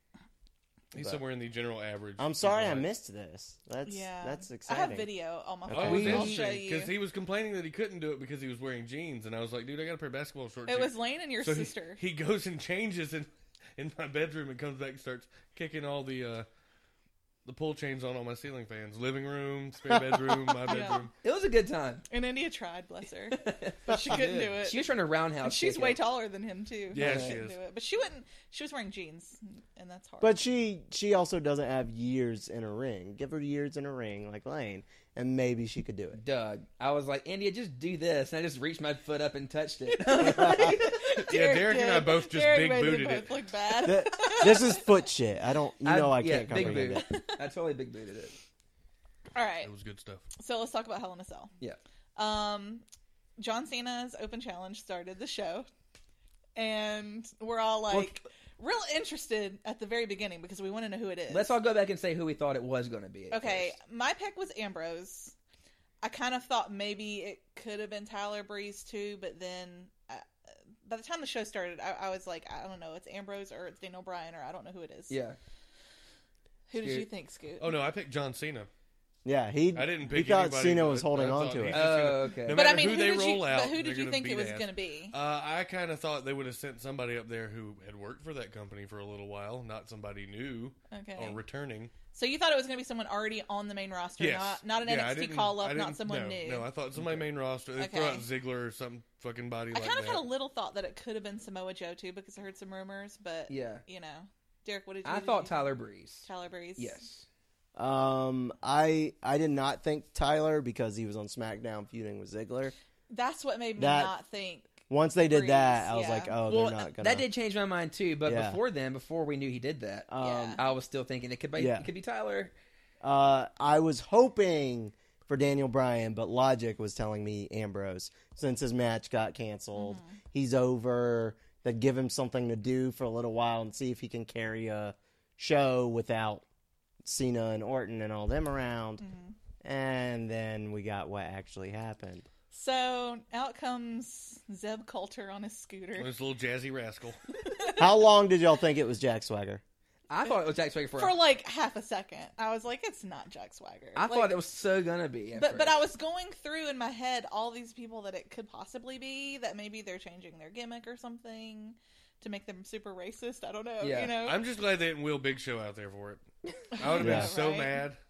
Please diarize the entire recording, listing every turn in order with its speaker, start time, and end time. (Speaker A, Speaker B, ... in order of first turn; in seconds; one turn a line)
Speaker A: 0.9-2.9
Speaker B: 2.2-5.1
Speaker C: 3.9-6.9
Speaker B: 5.7-6.3
Speaker A: 5.7-16.5
Speaker D: 5.8-6.5
Speaker C: 10.7-12.0
Speaker A: 17.4-21.1
Speaker C: 20.6-21.1
Speaker D: 21.2-22.1
Speaker C: 22.1-24.9
Speaker D: 23.4-26.0
Speaker C: 25.4-30.4
Speaker A: 26.9-27.6
Speaker B: 27.0-27.4
Speaker B: 30.2-36.2
Speaker D: 36.1-41.0
Speaker C: 40.1-44.9
Speaker B: 40.2-40.8
Speaker A: 41.2-43.5
Speaker B: 43.8-47.1
Speaker D: 45.8-48.4
Speaker A: 46.5-46.8
Speaker C: 47.0-47.3
Speaker C: 49.4-49.7
Speaker A: 49.6-50.3
Speaker C: 50.4-51.5
Speaker C: 52.2-52.8
Speaker C: 53.4-55.7
Speaker C: 56.6-61.5
Speaker D: 57.9-58.2
Speaker D: 61.3-63.8
Speaker C: 63.3-65.3
Speaker C: 66.0-70.3
Speaker C: 70.8-75.2
Speaker D: 75.1-75.4
Speaker C: 76.7-77.8
Speaker D: 76.8-77.1
Speaker A: 77.6-78.7
Speaker B: 79.2-81.9
Speaker A: 79.7-91.9
Speaker D: 81.7-82.7
Speaker C: 82.5-85.2
Speaker C: 90.9-91.4
Speaker C: 92.1-96.7
Speaker A: 94.2-100.2
Speaker D: 97.0-97.3
Speaker C: 97.8-98.3
Speaker C: 99.7-105.7
Speaker D: 103.5-103.8
Speaker D: 105.0-107.3
Speaker C: 106.2-107.0
Speaker B: 107.8-112.7
Speaker C: 113.1-116.4
Speaker B: 113.8-114.1
Speaker B: 114.9-117.3
Speaker D: 116.5-122.5
Speaker B: 118.2-118.6
Speaker B: 120.1-120.6
Speaker C: 120.2-120.6
Speaker B: 121.6-121.9
Speaker B: 123.0-136.4
Speaker C: 129.8-130.2
Speaker B: 137.1-139.0
Speaker C: 139.0-139.4
Speaker B: 139.6-142.3
Speaker C: 142.5-146.1
Speaker A: 146.0-147.2
Speaker C: 147.5-147.9
Speaker B: 147.8-149.6
Speaker D: 150.1-151.2
Speaker C: 150.9-154.3
Speaker D: 154.0-155.8
Speaker C: 155.3-164.4
Speaker D: 163.8-164.1
Speaker A: 164.2-168.0
Speaker C: 166.8-167.8
Speaker B: 167.0-167.3